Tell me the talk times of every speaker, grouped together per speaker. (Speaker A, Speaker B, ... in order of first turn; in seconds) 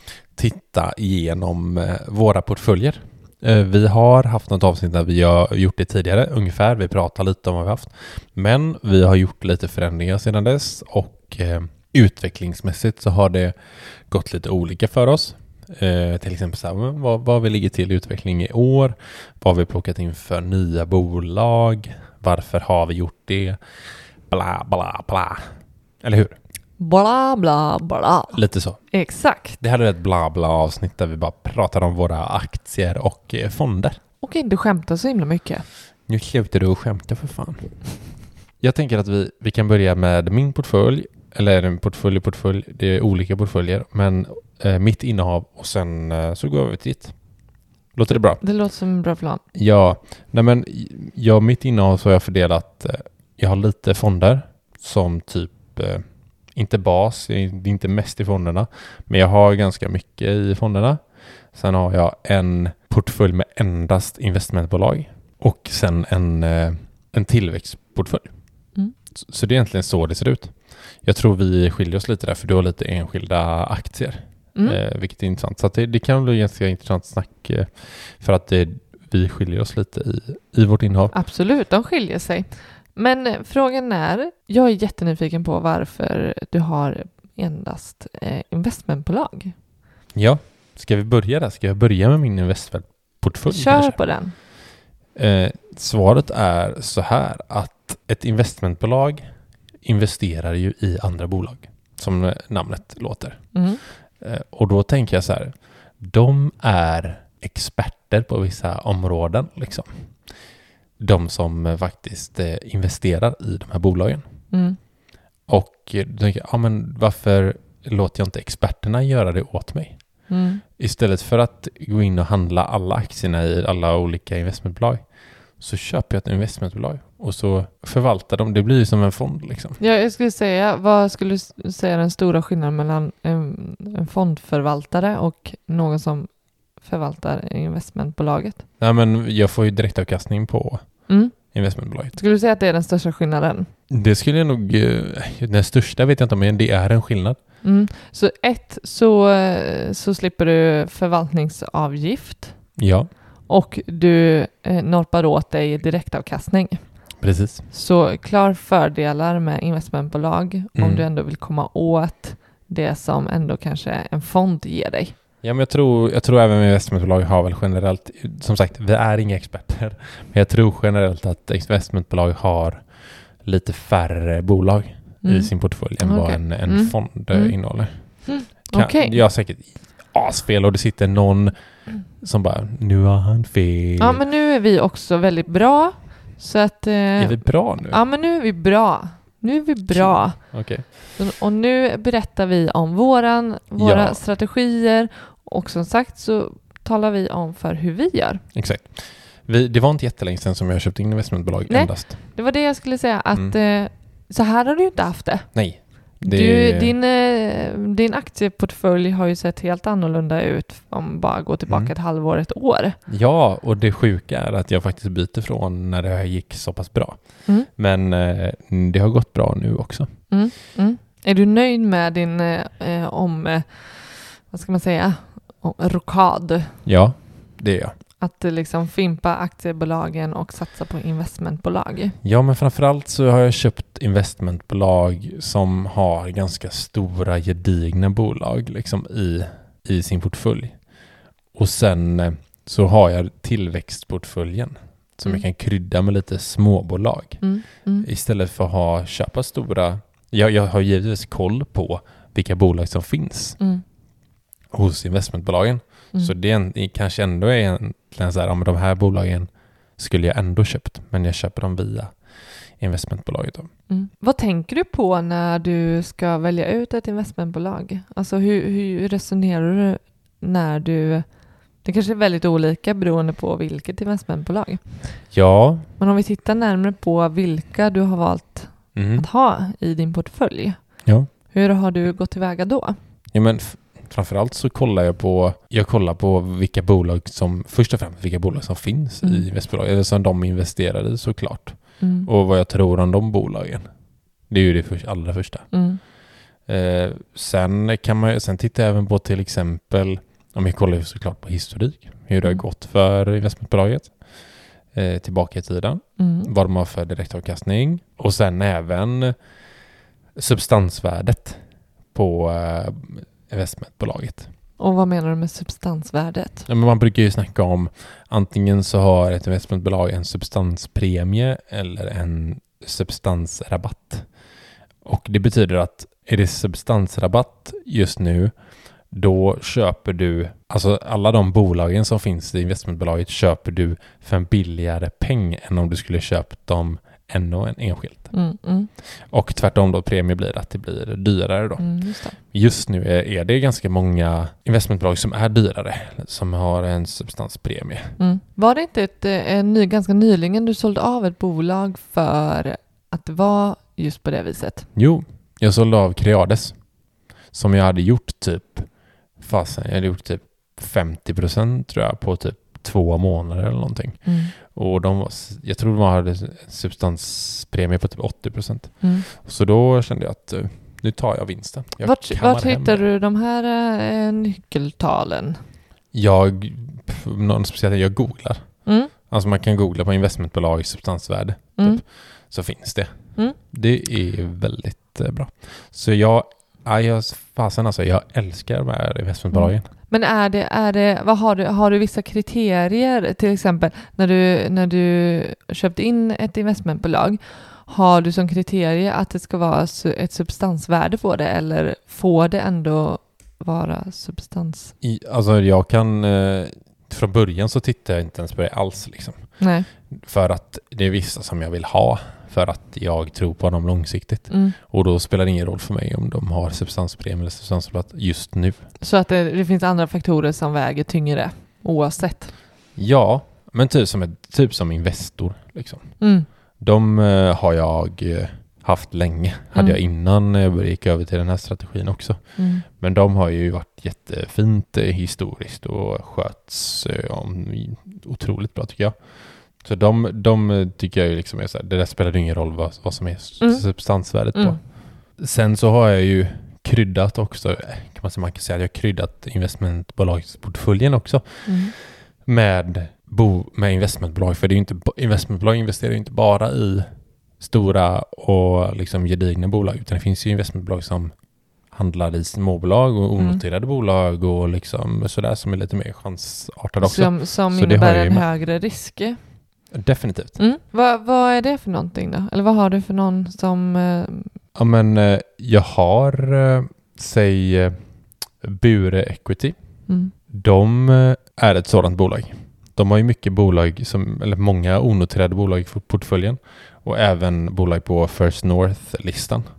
Speaker A: 0.3-13.5, 14.1-23.6, 24.3-25.4, 26.0-26.4, 28.3-28.8, 29.6-34.0, 36.1-37.7, 38.6-47.1, 47.9-48.4, 49.5-56.0, 56.5-61.0, 61.5-68.3, 69.1-81.1, 90.1-94.0, 95.1-99.2, 99.8-103.4, 104.2-109.9, 111.0-114.2, 115.5-120.0, 120.8-125.0, 125.6-129.8, 138.8-140.8, 141.5-142.1, 143.9-147.4, 152.8-153.1, 157.2-157.6, 160.8-161.0, 165.4-172.8, 173.4-177.9, 178.7-181.5, 182.2-184.2, 187.2-188.0, 189.9-190.9, 193.8-194.2, 198.5-202.2, 205.5-206.9, 213.1-217.2, 217.7-220.1, 226.8-227.9, 232.2-240.7, 241.5-247.4, 248.0-253.6, 254.7-262.1, 262.8-263.7, 275.3-275.9, 278.9-279.3, 283.3-293.8, 294.5-295.7, 296.7-304.1, 304.9-309.4, 310.4-311.6, 312.1-314.5, 316.7-324.2, 325.0-328.5, 329.1-338.3, 339.3-341.9, 342.5-348.1, 354.9-356.8, 357.5-358.9, 359.4-373.0, 376.1-378.6, 379.3-383.1, 383.7-389.9, 405.0-409.4, 410.1-418.8, 422.9-426.1, 426.8-432.4, 432.9-439.1, 439.8-444.8, 445.4-457.1, 457.6-461.3, 461.9-468.4, 469.9-470.6, 474.7-478.0, 478.6-479.8, 480.5-489.6
Speaker B: 26.8-29.6, 34.2-35.6, 48.4-49.4, 81.1-89.5, 93.5-94.3, 103.5-103.8, 114.5-114.8, 120.3-120.6, 129.8-136.3, 136.8-138.6, 141.1-141.3, 142.1-143.7, 147.6-152.5, 153.5-156.8, 157.7-165.1, 175.2-175.5, 176.0-177.6, 178.2-179.2, 184.0-190.4, 191.2-198.4, 201.7-205.5, 206.2-213.0, 220.3-226.7, 228.2-232.2, 247.4-248.1, 263.9-271.2, 271.8-274.8, 276.0-280.8, 281.5-283.0, 292.0-292.3, 295.7-296.0, 306.2-306.5, 314.8-316.7, 338.3-338.9, 341.8-342.4, 348.2-354.9, 364.2-364.5, 372.0-375.6, 378.9-379.1, 389.5-404.9, 409.6-409.9, 414.5-414.8, 419.0-422.5, 426.2-426.5, 432.6-432.8, 451.7-451.9, 467.0-469.4, 470.6-474.5, 480.1-480.3